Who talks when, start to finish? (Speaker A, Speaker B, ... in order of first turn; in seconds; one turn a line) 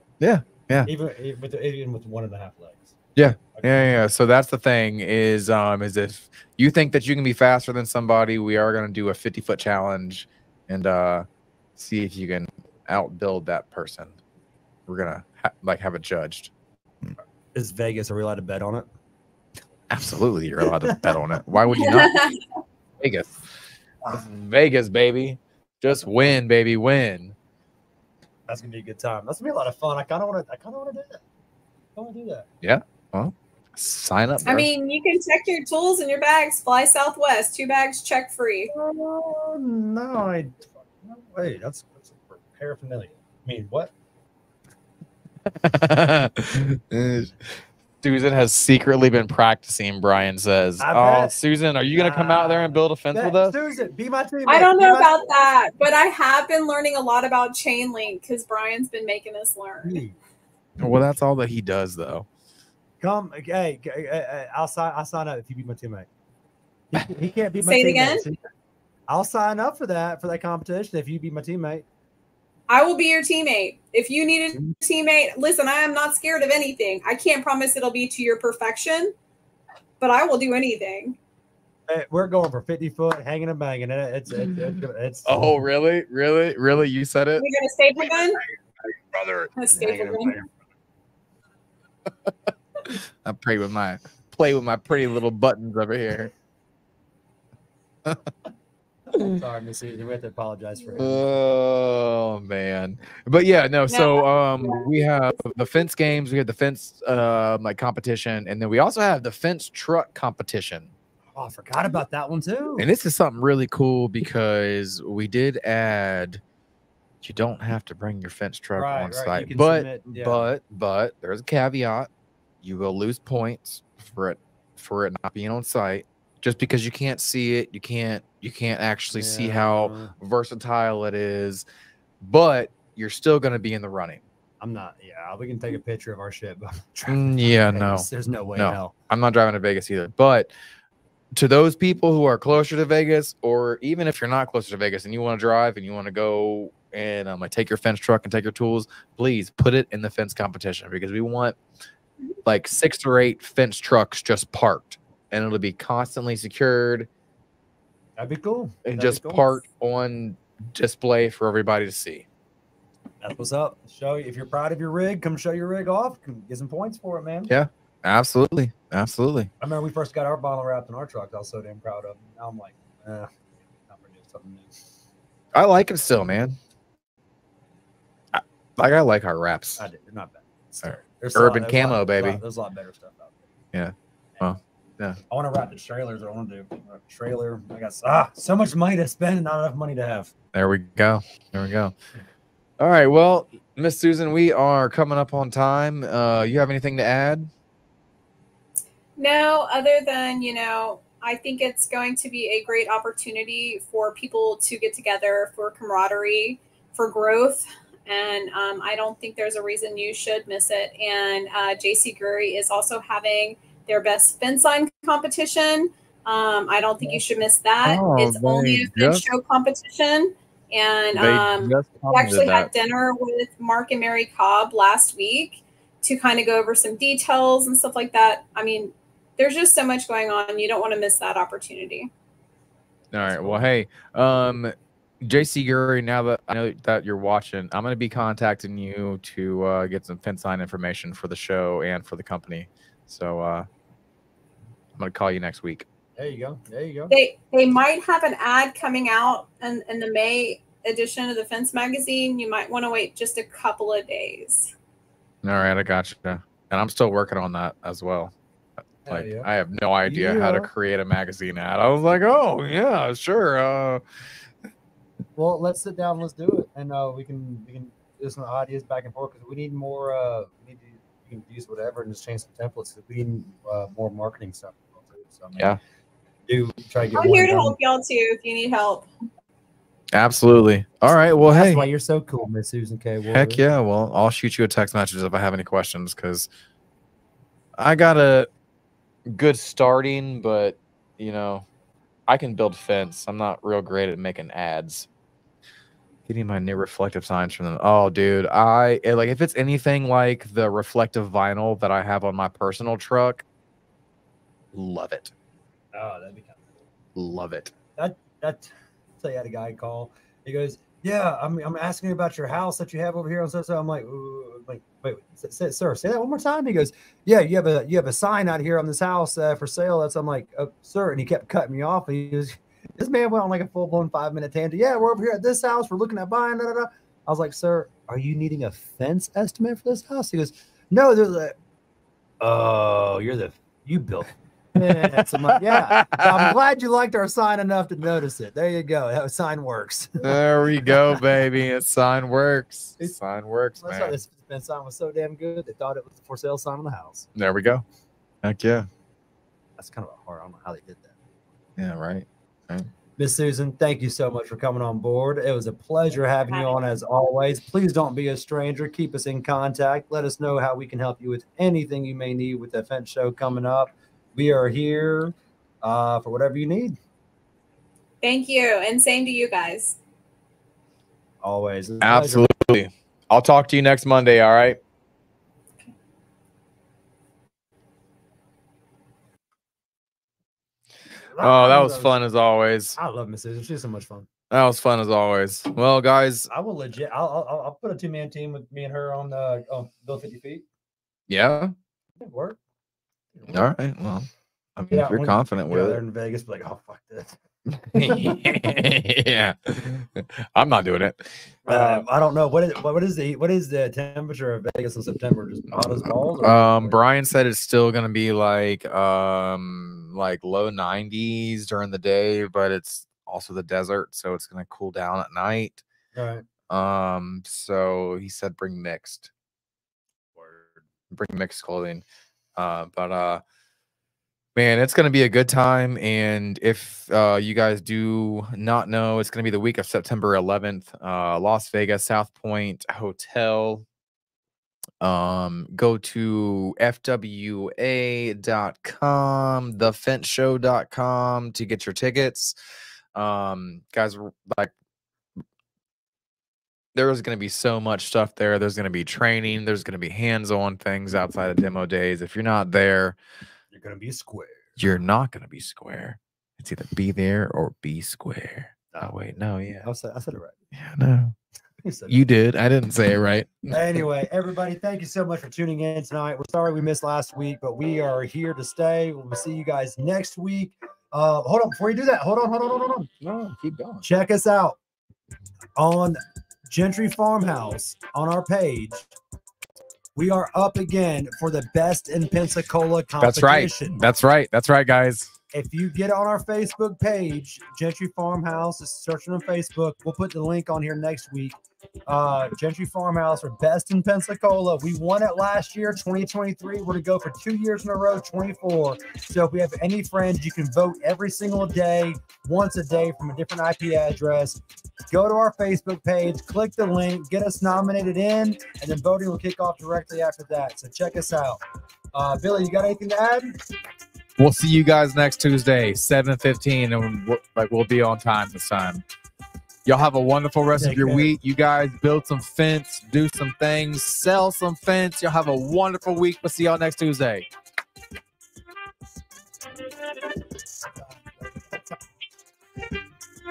Speaker A: 0.2-0.9
Speaker B: 0.8-2.9
Speaker A: 3.1-14.2
Speaker B: 3.5-4.0
Speaker A: 14.9-16.5
Speaker B: 17.5-18.9
Speaker A: 19.9-22.1
Speaker B: 20.8-21.1
Speaker C: 21.7-22.4
Speaker A: 23.0-23.4
Speaker A: 24.1-27.3
Speaker B: 28.5-31.2
Speaker B: 31.9-32.5
Speaker A: 32.6-34.7
Speaker C: 34.4-38.7
Speaker B: 38.7-43.9
Speaker A: 45.5-47.3
Speaker A: 48.0-53.5
Speaker B: 50.8-51.4
Speaker B: 51.9-55.2
Speaker C: 54.5-60.0
Speaker B: 59.8-60.1
Speaker A: 60.8-62.3
Speaker B: 63.0-66.1
Speaker B: 66.9-68.4
Speaker C: 67.6-68.2
Speaker B: 69.1-71.8
Speaker C: 72.7-79.1
Speaker C: 80.0-81.2
Speaker B: 81.9-85.3
Speaker A: 85.2-87.4
Speaker C: 87.3-88.4
Speaker A: 89.1-89.5
Speaker C: 89.5-90.4
Speaker B: 89.7-90.5
Speaker A: 92.1-96.3
Speaker B: 99.2-101.2
Speaker A: 100.9-110.9
Speaker C: 103.9-104.9
Speaker B: 111.3-112.9
Speaker A: 112.8-116.4
Speaker A: 117.2-122.1
Speaker B: 118.8-120.5
Speaker A: 122.6-131.7
Speaker B: 129.1-130.1
Speaker A: 132.2-134.2
Speaker B: 134.6-138.9
Speaker A: 137.1-140.5
Speaker A: 141.3-151.6
Speaker A: 152.4-157.1
Speaker B: 158.2-159.6
Speaker A: 158.8-162.2
Speaker B: 163.2-167.5
Speaker A: 167.5-169.5
Speaker B: 169.6-173.3
Speaker B: 173.9-174.7
Speaker A: 175.5-176.6
Speaker A: 178.3-179.8
Speaker B: 179.8-183.4
Speaker A: 180.8-182.4
Speaker A: 183.7-185.2
Speaker B: 185.3-190.3
Speaker A: 190.5-191.9
Speaker A: 192.8-197.5
Speaker C: 199.2-232.1
Speaker A: 217.8-219.2
Speaker A: 221.1-222.7
Speaker A: 233.1-243.7
Speaker B: 233.2-233.6
Speaker A: 245.0-245.8
Speaker B: 246.2-247.1
Speaker C: 247.1-254.7
Speaker A: 255.4-258.3
Speaker B: 259.1-259.5
Speaker A: 259.1-264.0
Speaker B: 260.0-260.7
Speaker B: 265.4-275.7
Speaker B: 276.5-277.8
Speaker C: 277.1-279.1
Speaker A: 280.1-281.8
Speaker B: 281.4-283.6
Speaker A: 283.3-286.5
Speaker A: 287.8-288.5
Speaker A: 289.3-291.6
Speaker A: 292.3-295.1
Speaker A: 296.2-303.4
Speaker A: 304.7-305.3
Speaker B: 305.9-306.6
Speaker A: 307.1-307.7
Speaker B: 307.9-331.6
Speaker B: 332.4-341.1
Speaker A: 334.8-336.5
Speaker A: 340.2-344.2
Speaker B: 343.8-347.3
Speaker A: 347.4-347.8
Speaker A: 348.4-348.9
Speaker B: 349.8-351.1
Speaker A: 351.8-352.9
Speaker B: 353.2-367.0
Speaker C: 368.2-369.9
Speaker B: 371.4-372.5
Speaker A: 372.0-374.8
Speaker B: 381.3-382.1
Speaker A: 381.4-383.0
Speaker B: 383.0-384.3
Speaker A: 384.5-386.5
Speaker B: 386.5-390.6
Speaker A: 391.3-391.7
Speaker B: 392.2-392.6
Speaker B: 393.3-393.7
Speaker A: 393.5-396.0
Speaker B: 394.9-397.4
Speaker A: 397.8-402.0
Speaker B: 397.9-398.4
Speaker B: 401.6-407.0
Speaker A: 405.7-415.8
Speaker B: 416.1-416.4
Speaker A: 416.7-419.3
Speaker B: 420.4-420.7
Speaker A: 421.1-422.0
Speaker A: 422.6-423.4
Speaker A: 424.6-433.8
Speaker A: 435.0-442.5
Speaker A: 443.1-444.7
Speaker A: 446.9-453.2
Speaker B: 453.7-454.8
Speaker A: 454.8-459.8
Speaker B: 458.9-460.6
Speaker A: 460.7-461.3
Speaker B: 461.8-462.2
Speaker A: 462.1-463.8
Speaker B: 463.7-473.1
Speaker A: 473.2-474.1
Speaker B: 474.0-474.8
Speaker B: 475.8-479.1
Speaker B: 480.1-484.0
Speaker A: 483.2-485.3
Speaker B: 485.5-491.6
Speaker B: 492.1-511.6
Speaker B: 512.1-513.5
Speaker A: 514.4-519.0
Speaker A: 519.8-527.5
Speaker B: 520.7-521.3